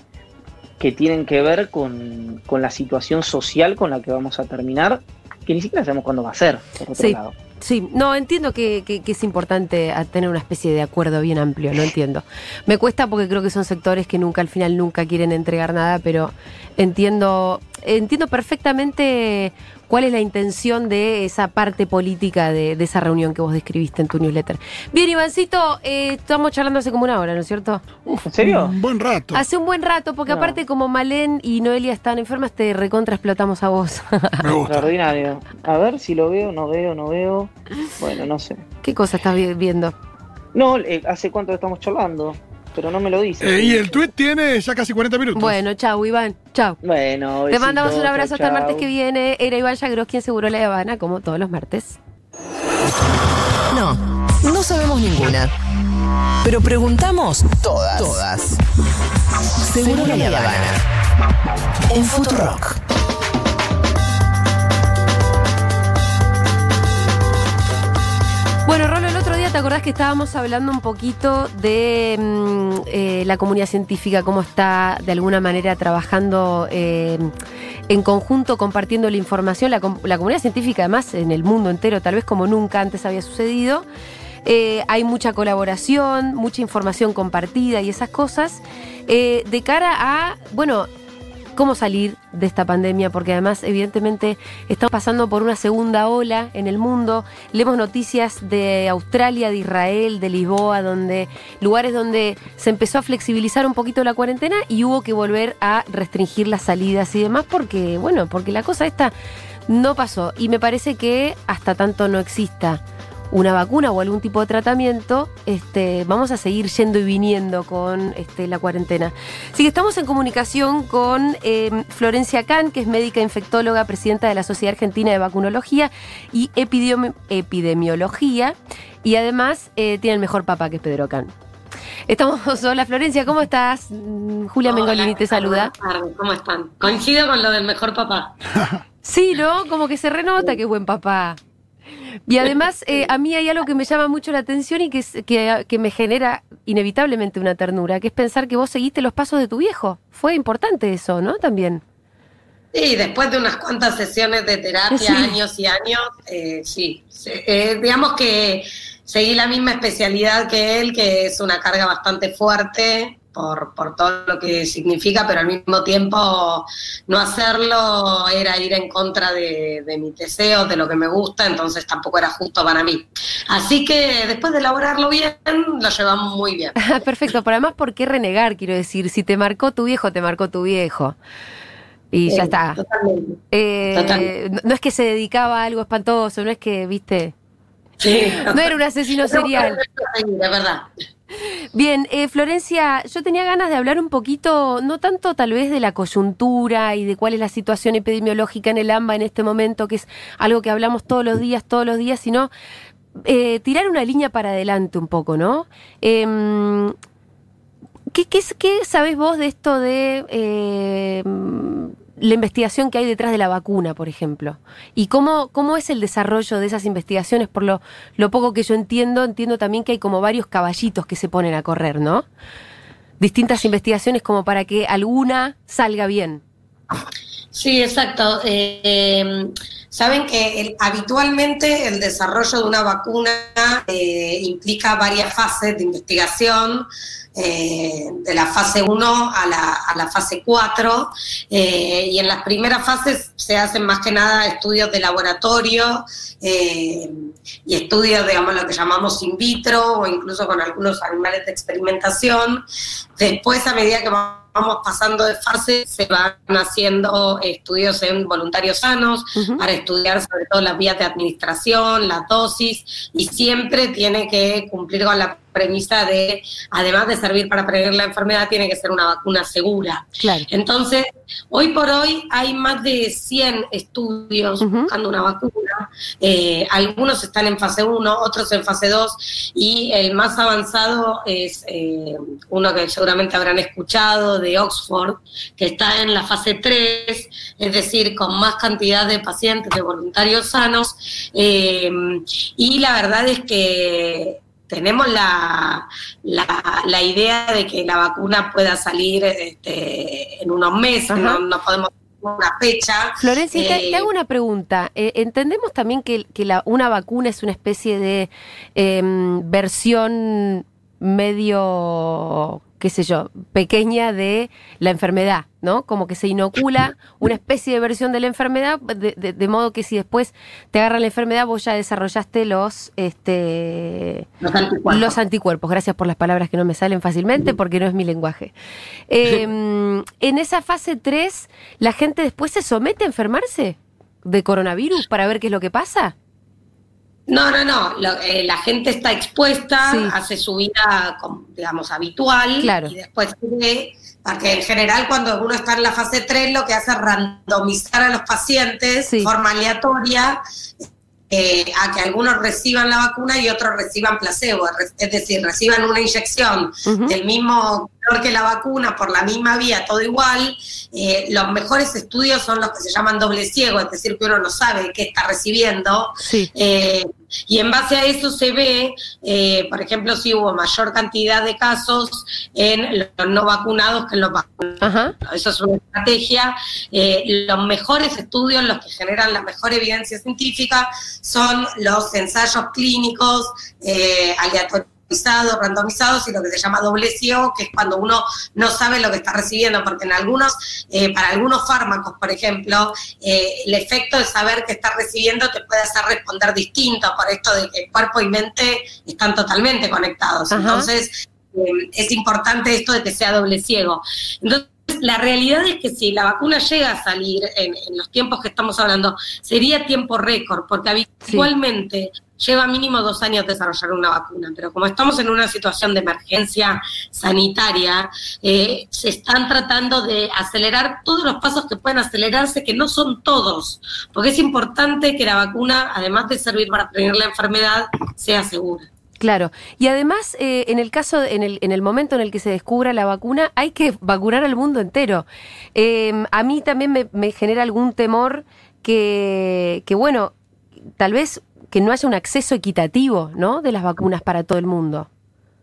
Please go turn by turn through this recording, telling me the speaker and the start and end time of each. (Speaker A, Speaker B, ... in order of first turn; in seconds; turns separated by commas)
Speaker A: 0.8-7.3, Speaker B: 7.0-27.8, Speaker C: 28.1-29.4, Speaker A: 28.3-28.7, Speaker B: 29.3-34.4, Speaker A: 30.3-30.6, Speaker C: 34.4-34.9, Speaker A: 34.6-38.6, Speaker B: 38.8-39.9, Speaker A: 40.5-44.0, Speaker C: 43.4-45.6, Speaker B: 45.3-46.8, Speaker A: 46.8-48.9, Speaker B: 47.5-52.0, Speaker D: 53.7-55.5, Speaker D: 56.4-58.6, Speaker D: 59.6-60.8, Speaker B: 59.9-60.4, Speaker D: 61.9-62.8, Speaker B: 68.7-77.3, Speaker B: 77.9-83.8, Speaker B: 84.4-90.9, Speaker B: 91.5-109.1, Speaker B: 109.7-131.3, Speaker B: 132.1-135.7, Speaker E: 134.6-138.3, Speaker B: 139.0-141.4, Speaker B: 142.3-151.8, Speaker E: 152.7-176.7, Speaker B: 154.9-155.4, Speaker B: 176.8-181.2, Speaker B: 182.1-182.8, Speaker E: 182.3-183.4, Speaker B: 183.5-187.3, Speaker E: 183.9-184.3, Speaker E: 188.0-190.9, Speaker B: 188.5-189.8, Speaker B: 191.7-202.5, Speaker B: 203.2-206.9, Speaker B: 208.1-222.2, Speaker B: 223.2-226.4, Speaker E: 227.5-247.1, Speaker E: 247.7-252.6, Speaker E: 253.2-304.1, Speaker B: 259.4-259.6, Speaker B: 270.2-270.5, Speaker B: 274.6-274.9, Speaker B: 301.1-301.4, Speaker B: 303.2-324.3, Speaker E: 324.4-325.2, Speaker B: 324.9-328.5, Speaker B: 329.1-336.1, Speaker E: 337.3-350.4, Speaker B: 339.8-340.1, Speaker B: 342.6-342.9, Speaker B: 349.0-349.3, Speaker E: 351.3-428.9, Speaker B: 356.9-357.2, Speaker B: 366.2-366.5, Speaker B: 374.8-375.1, Speaker B: 400.5-400.9, Speaker B: 429.2-440.3, Speaker B: 441.0-445.1